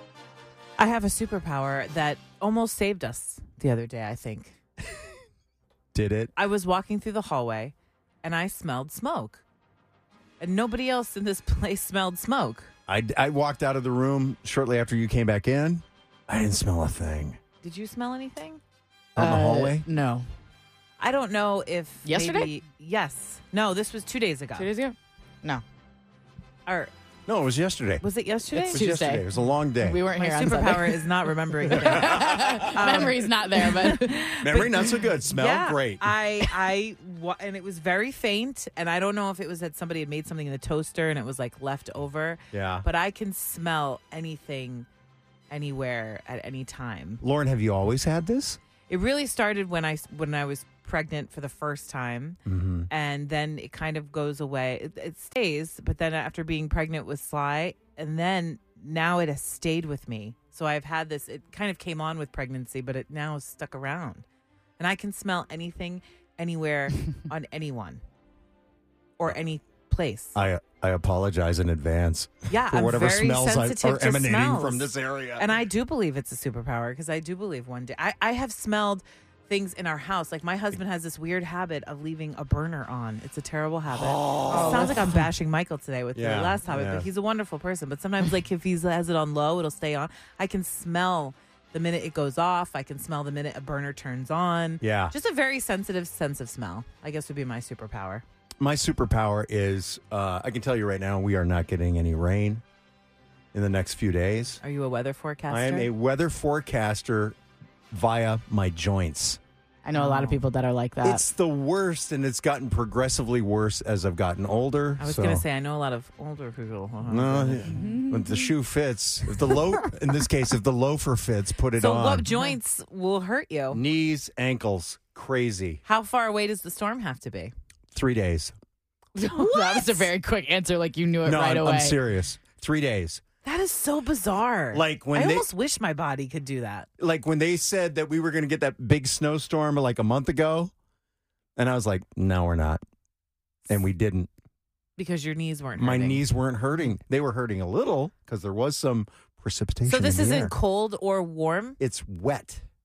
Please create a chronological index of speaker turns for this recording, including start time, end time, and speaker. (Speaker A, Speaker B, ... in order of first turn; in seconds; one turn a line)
Speaker A: 0.8-4.6
Speaker B: 5.9-6.3
Speaker A: 6.3-9.4
Speaker A: 10.4-12.7
Speaker B: 12.9-17.4
Speaker A: 17.6-18.6
Speaker B: 19.1-19.9
Speaker C: 19.2-20.2
Speaker A: 21.0-24.7
Speaker C: 22.0-22.5
Speaker C: 24.5-25.6
Speaker A: 26.6-26.9
Speaker B: 27.3-28.0
Speaker A: 28.0-28.8
Speaker C: 28.5-34.9
Speaker B: 28.6-30.0
Speaker A: 30.1-44.9
Speaker B: 31.7-33.0
Speaker B: 34.4-36.1
Speaker B: 42.5-42.9
Speaker A: 45.5-47.2
Speaker B: 47.2-48.6
Speaker A: 48.9-64.2
Speaker B: 52.5-52.9
Speaker A: 64.8-68.0
Speaker A: 69.2-70.3
Speaker B: 70.3-75.6
Speaker A: 72.5-98.2
Speaker B: 83.9-85.0
Speaker C: 84.5-85.2
Speaker B: 86.1-87.1
Speaker B: 94.8-95.1
Speaker B: 98.6-102.6
Speaker B: 103.5-104.6
Speaker A: 104.6-105.9
Speaker B: 105.5-107.3
Speaker B: 107.9-109.4
Speaker C: 109.8-111.2
Speaker A: 109.9-110.4
Speaker B: 111.0-115.4
Speaker A: 115.0-117.9
Speaker B: 117.0-122.3
Speaker C: 117.7-118.5
Speaker C: 119.5-119.8
Speaker A: 121.8-123.8
Speaker C: 122.3-122.5
Speaker B: 123.7-125.8
Speaker A: 125.8-127.5
Speaker B: 127.9-128.5
Speaker C: 129.2-132.0
Speaker A: 129.2-130.1
Speaker B: 131.2-133.2
Speaker A: 133.4-136.9
Speaker B: 134.7-135.4
Speaker B: 137.0-140.7
Speaker B: 141.6-142.8
Speaker B: 143.7-144.3
Speaker A: 145.0-146.3
Speaker B: 145.8-150.5
Speaker A: 149.9-151.8
Speaker B: 151.8-152.6